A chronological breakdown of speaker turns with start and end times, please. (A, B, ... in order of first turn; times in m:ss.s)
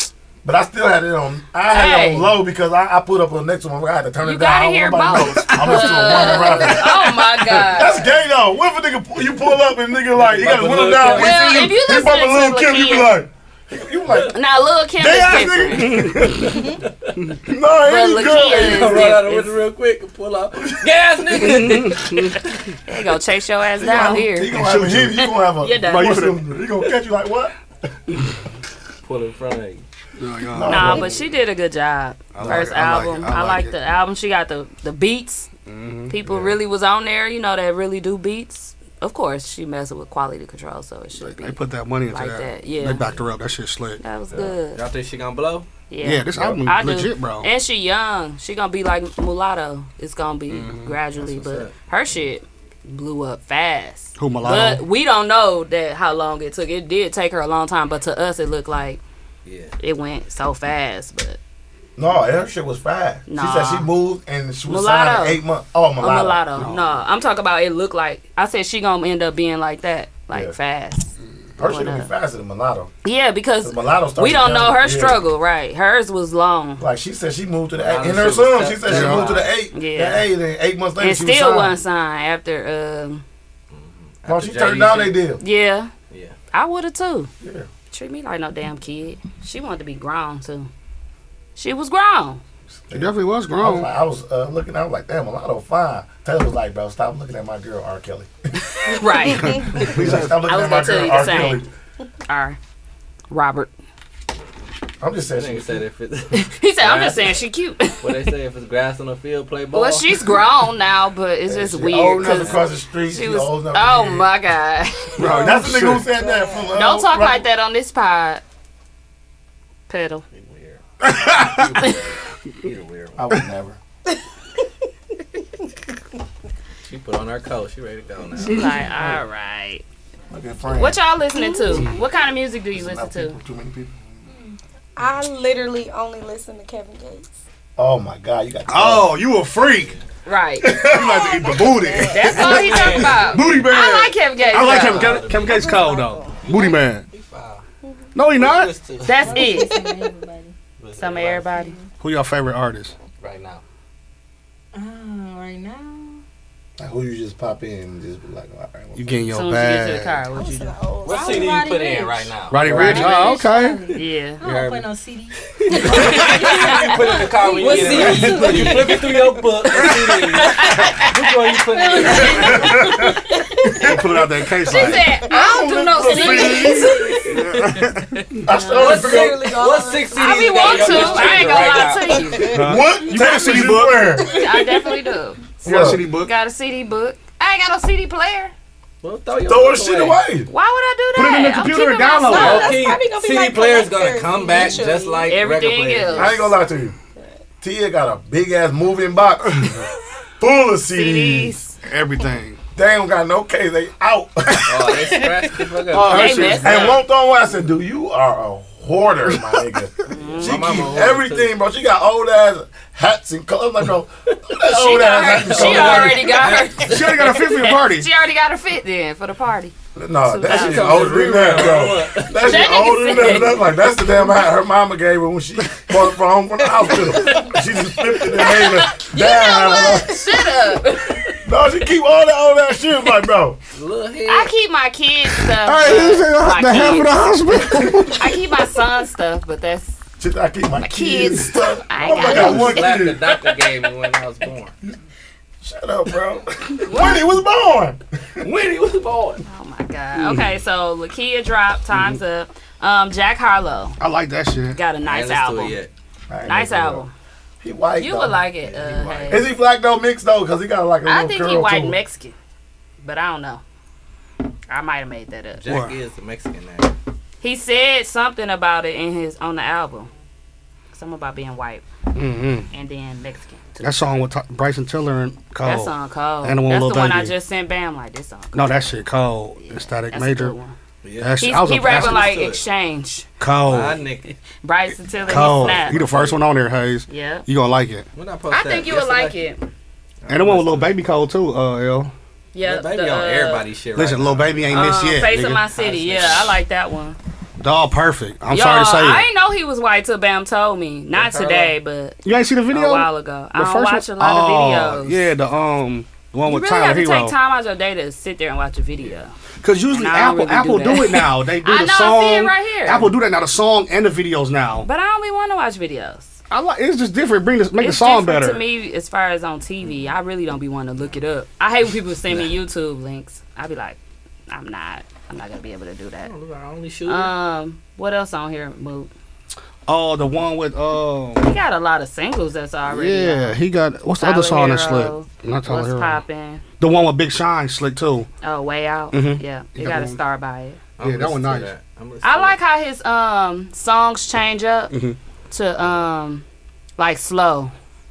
0:00.4-0:14.4 A
0:01.7-0:02.4 B
0:04.2-0:08.1 B
0:05.5-0:06.2 C
0:10.2-0:11.6 D
0:11.1-0:13.2 B
0:14.3-0:16.1 B
0:15.0-0:16.6 A
0:15.8-0:16.6 C
0:16.6-0:17.2 D
0:17.5-0:19.2 A
0:17.8-0:19.5 B
0:18.5-0:22.4 D
0:21.4-0:22.4 C
0:22.9-0:24.5 B
0:23.8-0:27.5 A
0:24.5-0:26.4 C
0:25.6-0:26.3 B
0:29.0-0:29.8 D
0:30.2-0:31.2 C
0:30.5-0:31.1 A
0:30.6-0:35.5 B
0:32.3-0:33.7 C
0:35.7-0:36.5 C
0:36.1-0:41.6 B
0:41.2-0:44.0 C
0:42.1-0:43.1 B
0:44.0-0:44.8 B
0:44.3-0:45.7 D
0:45.9-0:59.0 B
0:46.0-0:47.5 C
0:50.5-0:51.0 C
0:51.2-0:51.7 D
0:54.2-0:54.8 C
0:59.4-0:59.7 D
0:59.8-1:01.4 B
1:02.0-1:06.4 A
1:03.3-1:03.9 B
1:04.7-1:05.4 B
1:06.0-1:12.1 B
1:06.6-1:07.0 C
1:11.6-1:12.9 A
1:13.0-1:16.8 B
1:13.6-1:15.2 A
1:16.8-1:21.8 A
1:17.7-1:19.5 D
1:18.9-1:19.4 C
1:19.7-1:20.3 B
1:21.0-1:23.2 B
1:23.7-1:25.2 D
1:24.3-1:25.4 A
1:25.4-1:25.9 B
1:26.1-1:26.4 D
1:26.5-1:27.3 B
1:27.4-1:27.7 A
1:27.9-1:30.7 B
1:31.6-1:32.4 B
1:32.9-1:38.3 A
1:32.9-1:33.9 C
1:38.7-1:41.6 B
1:39.4-1:40.3 C
1:39.7-1:41.7 A
1:42.3-1:42.6 B
1:43.3-1:43.7 B
1:45.0-1:45.8 A
1:45.3-1:47.4 D
1:46.3-1:48.3 B
1:48.0-1:50.4 D
1:49.7-1:55.2 B
1:51.5-1:54.3 A
1:55.2-1:56.0 C
1:55.2-1:56.7 E
1:55.2-1:57.5 A
1:56.7-1:58.4 B
1:59.9-2:00.2 B
2:00.3-2:03.2 D
2:01.0-2:01.8 C
2:03.2-2:03.8 A
2:06.8-2:08.7 D
2:08.4-2:09.2 C
2:08.5-2:09.8 B
2:10.3-2:11.0 A
2:10.8-2:13.4 B
2:11.4-2:11.9 E
2:12.7-2:14.0 A
2:14.3-2:14.6 F
2:15.0-2:17.3 E
2:17.8-2:19.2 A
2:18.7-2:19.9 C
2:19.7-2:20.0 D
2:20.3-2:20.8 B
2:20.6-2:21.7 A
2:20.8-2:27.0 C
2:21.4-2:23.0 E
2:22.0-2:25.2 B
2:22.4-2:23.7 D
2:24.6-2:25.7 D
2:25.2-2:26.8 E
2:26.4-2:27.6 D
2:27.8-2:28.1 E
2:28.2-2:28.8 C
2:28.4-2:29.4 D
2:29.0-2:29.7 B
2:29.2-2:30.5 F
2:29.4-2:30.0 E
2:30.8-2:31.6 D
2:31.0-2:31.7 B
2:31.5-2:31.9 F
2:32.0-2:32.9 C
2:33.2-2:33.6 D
2:34.7-2:36.2 F
2:36.8-2:39.2 A
2:39.0-2:40.2 C
2:39.3-2:40.8 B
2:40.3-2:41.5 E
2:41.0-2:43.1 D
2:41.0-2:48.2 F
2:42.5-2:43.8 C
2:42.6-2:43.1 A
2:43.9-2:44.4 B
2:44.4-2:44.9 D
2:45.4-2:53.0 D
2:45.8-2:46.9 B
2:47.6-2:51.3 B
2:48.3-2:48.7 E
2:51.7-2:53.5 F
2:52.0-2:52.7 B
2:52.6-2:53.0 A
2:53.8-2:55.1 C
2:54.6-2:57.3 B
2:55.2-2:56.9 A
2:56.1-2:58.4 C
2:57.2-2:57.9 D
2:58.4-2:59.5 A
2:58.5-2:59.2 B
2:58.8-3:02.6 E
2:58.8-3:02.6 D
3:00.1-3:02.5 B
3:02.5-3:04.2 C
3:02.6-3:04.3 A
3:04.2-3:05.0 E
3:04.3-3:08.5 B
3:05.6-3:06.0 A
3:05.6-3:06.3 C
3:09.0-3:10.2 D
3:09.4-3:10.5 A
3:10.5-3:12.9 B
3:11.2-3:12.8 C
3:12.3-3:15.4 E
3:12.3-3:16.5 D
3:15.3-3:16.5 B
3:16.2-3:17.0 A
3:17.2-3:17.4 E
3:17.6-3:19.9 A
3:20.4-3:21.6 A
3:20.9-3:21.8 B
3:21.8-3:22.6 C
3:22.8-3:25.0 A
3:24.7-3:26.6 D
3:25.8-3:27.0 C
3:26.1-3:27.0 B
3:26.1-3:36.5 A
3:29.3-3:29.6 C
3:30.1-3:30.6 B
3:30.4-3:31.5 D
3:34.6-3:39.7 B
3:35.4-3:37.1 D
3:35.6-3:38.1 C
3:40.0-3:50.2 A
3:40.2-3:41.2 B
3:40.5-3:42.4 D
3:42.3-3:43.6 B
3:48.4-3:51.3 B
3:51.4-3:53.6 A
3:53.7-3:54.5 D
3:54.3-4:00.0 B
3:55.5-3:58.3 C
4:00.2-4:03.2 A
4:00.8-4:03.1 B
4:02.1-4:04.7 D
4:02.3-4:02.8 C
4:05.6-4:08.5 A
4:06.8-4:07.2 B
4:08.4-4:09.4 D
4:09.4-4:14.0 B
4:10.2-4:10.5 C
4:14.0-4:14.8 C
4:14.7-4:15.8 B
4:15.0-4:15.9 D
4:16.3-4:17.1 A
4:16.5-4:17.1 B
4:17.6-4:22.0 A
4:18.0-4:19.5 B
4:21.1-4:22.4 B
4:23.0-4:23.6 B
4:24.7-4:25.6 B
4:25.6-4:26.9 D
4:25.7-4:26.0 C
4:27.4-4:30.1 B
4:30.9-4:31.8 B
4:32.1-4:32.7 C
4:32.7-4:34.1 B
4:33.8-4:37.3 C
4:35.6-4:39.0 B
4:38.5-4:40.6 C
4:39.6-4:40.8 B
4:41.0-4:42.6 D
4:41.2-4:42.3 C
4:41.4-4:43.3 B
4:43.4-4:44.0 C
4:43.6-4:44.4 D
4:44.6-4:46.0 B
4:45.2-4:48.1 C
4:45.4-4:46.4 D
4:47.1-4:47.5 B
4:48.2-4:49.4 D
4:48.5-4:49.7 B
4:50.2-4:51.0 D
4:50.3-4:52.1 C
4:52.5-4:53.6 B
4:52.6-4:55.1 D
4:54.0-4:55.6 C
4:54.7-4:57.2 B
4:55.8-4:56.6 D
4:57.6-4:59.3 C
4:58.5-5:02.2 B
5:01.1-5:01.8 D
5:02.2-5:07.4 C
5:02.7-5:05.3 B
5:06.5-5:09.3 B
5:09.6-5:14.9 C
5:09.9-5:13.1 B
5:14.8-5:16.4 B
5:16.5-5:18.6 C
5:17.8-5:24.0 B
5:24.5-5:26.3 B
5:26.2-5:27.3 D
5:27.1-5:29.1 B
5:29.9-5:31.5 C
5:31.4-5:33.6 B
5:32.9-5:36.2 C
5:34.2-5:36.6 B
5:36.8-5:38.3 C
5:38.4-5:40.8 B
5:39.1-5:40.2 C
5:41.0-5:42.6 D
5:41.0-5:41.7 C
5:42.2-5:44.9 B
5:44.9-5:45.2 C
5:45.5-5:46.4 B
5:47.0-5:47.7 B